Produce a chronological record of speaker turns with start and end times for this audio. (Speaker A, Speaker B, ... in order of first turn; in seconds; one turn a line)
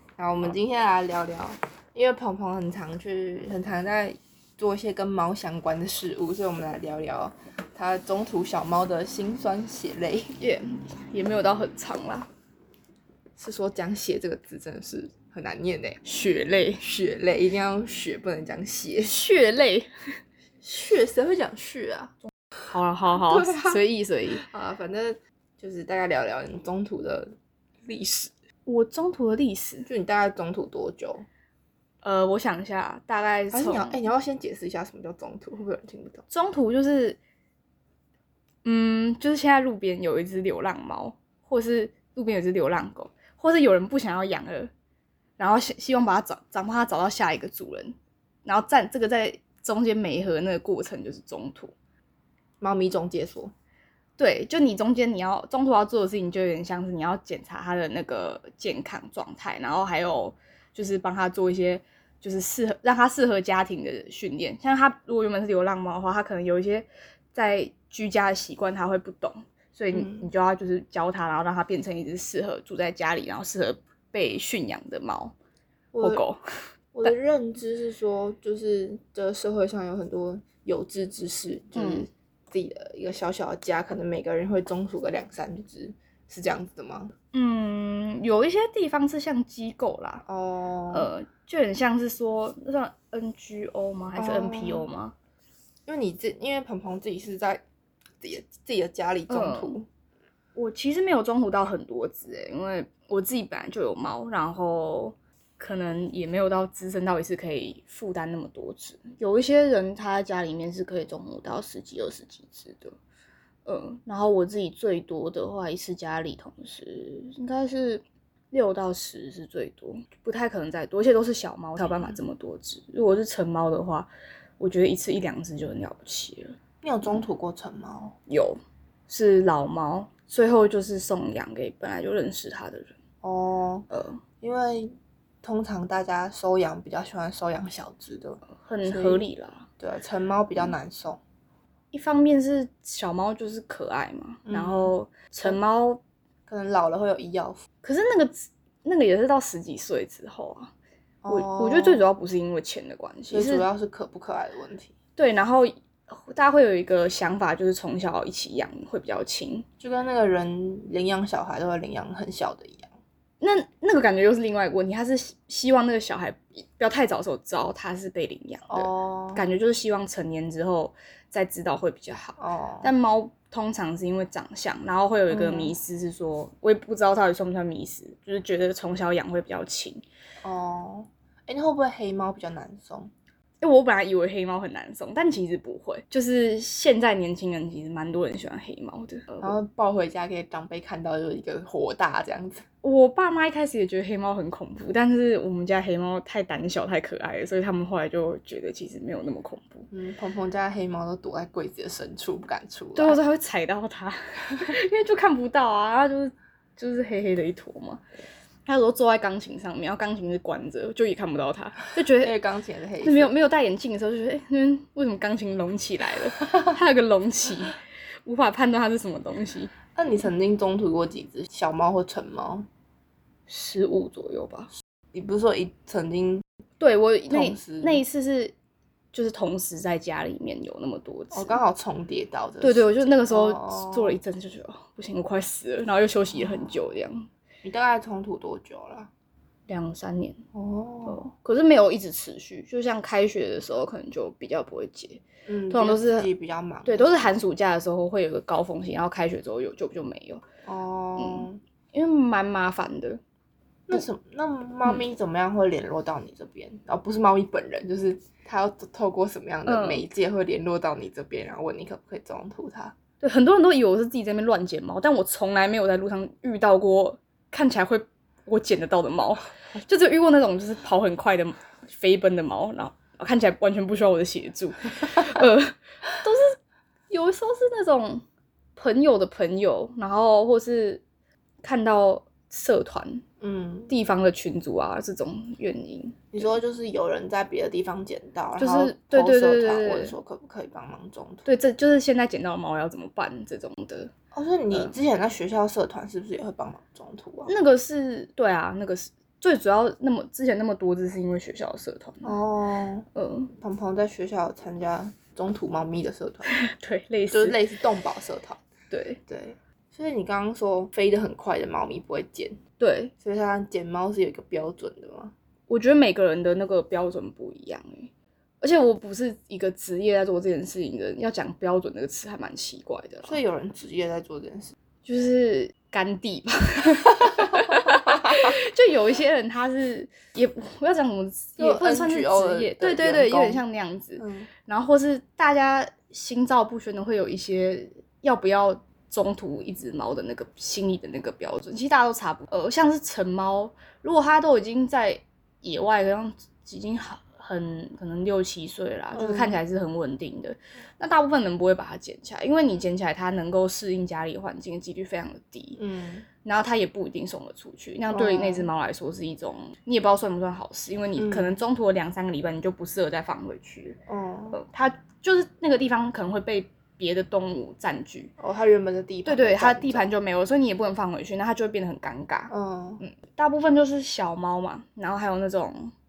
Speaker A: 0.2-10.3
Speaker B: 10.4-12.3
Speaker A: 13.4-19.2
Speaker B: 19.0-19.9
Speaker A: 20.6-22.1
Speaker B: 22.7-24.4
Speaker A: 23.3-23.8
Speaker A: 24.3-27.3
Speaker A: 27.9-28.3
Speaker B: 28.7-29.9
Speaker A: 29.9-31.2
Speaker B: 32.0-34.0
Speaker A: 33.5-36.2
Speaker B: 36.3-37.2
Speaker B: 38.6-44.7
Speaker B: 45.4-51.7
Speaker A: 52.6-53.5
Speaker B: 54.2-75.3
Speaker A: 69.9-70.3
Speaker A: 75.9-76.2
Speaker B: 76.0-76.4
Speaker A: 76.9-87.1
Speaker B: 81.8-82.0
Speaker B: 87.3-90.2
Speaker A: 90.3-91.1
Speaker B: 90.9-95.2
Speaker A: 94.2-94.8
Speaker A: 95.9-97.6
Speaker A: 98.2-99.9
Speaker B: 99.3-99.8
Speaker B: 100.6-113.0
Speaker B: 113.7-126.6
Speaker A: 126.8-128.2
Speaker B: 128.3-132.9
Speaker A: 133.2-133.9
Speaker B: 133.9-134.2
Speaker A: 134.4-139.2
Speaker B: 138.5-139.7
Speaker A: 139.8-141.2
Speaker B: 141.9-146.0
Speaker A: 144.5-145.6
Speaker A: 146.5-147.6
Speaker B: 147.8-150.7
Speaker A: 151.2-152.1
Speaker B: 151.3-153.7
Speaker A: 153.3-154.9
Speaker B: 155.2-159.7
Speaker A: 159.8-162.9
Speaker B: 163.4-180.0
Speaker A: 168.7-169.4
Speaker A: 172.4-172.9
Speaker A: 175.3-175.8
Speaker A: 180.4-183.1
Speaker B: 183.6-189.6
Speaker A: 189.4-192.7
Speaker B: 192.8-199.9
Speaker A: 199.9-203.2
Speaker B: 202.9-208.0
Speaker B: 208.7-212.3
Speaker A: 212.2-213.3
Speaker B: 213.0-219.7
Speaker A: 219.9-222.7
Speaker B: 223.5-224.7
Speaker A: 225.1-226.4
Speaker B: 226.8-228.5
Speaker A: 227.3-228.0
Speaker B: 229.1-231.6
Speaker A: 231.3-234.2
Speaker B: 232.6-237.3
Speaker A: 236.4-236.7
Speaker A: 237.6-239.1
Speaker B: 239.7-240.4
Speaker A: 240.5-241.2
Speaker B: 241.1-246.3
Speaker A: 245.5-247.3
Speaker B: 246.8-250.4
Speaker A: 250.7-251.6
Speaker B: 251.2-253.2
Speaker A: 253.9-262.9
Speaker B: 259.7-260.1
Speaker B: 263.2-276.6
Speaker B: 277.1-278.2
Speaker B: 278.8-281.0
Speaker B: 281.6-283.2
Speaker A: 283.4-283.9
Speaker B: 283.9-286.5
Speaker A: 286.3-291.5
Speaker B: 288.6-290.1
Speaker B: 291.5-294.1
Speaker A: 294.3-297.5
Speaker B: 297.5-302.4
Speaker A: 302.2-306.5
Speaker B: 303.1-303.5
Speaker B: 306.5-307.6
Speaker A: 307.3-308.6
Speaker B: 308.9-309.2
Speaker A: 309.3-312.6
Speaker B: 312.8-313.1
Speaker A: 313.2-315.3
Speaker B: 315.7-323.4
Speaker A: 323.2-324.8
Speaker B: 325.1-355.8
Speaker A: 327.3-328.5
Speaker A: 331.6-333.6
Speaker A: 334.2-334.5
Speaker A: 349.1-349.6
Speaker A: 355.8-356.3
Speaker B: 356.4-364.0
Speaker A: 358.1-358.7
Speaker A: 361.2-361.6
Speaker A: 364.1-364.6
Speaker B: 364.5-368.3
Speaker A: 368.4-370.1
Speaker B: 369.2-375.9
Speaker A: 372.5-373.0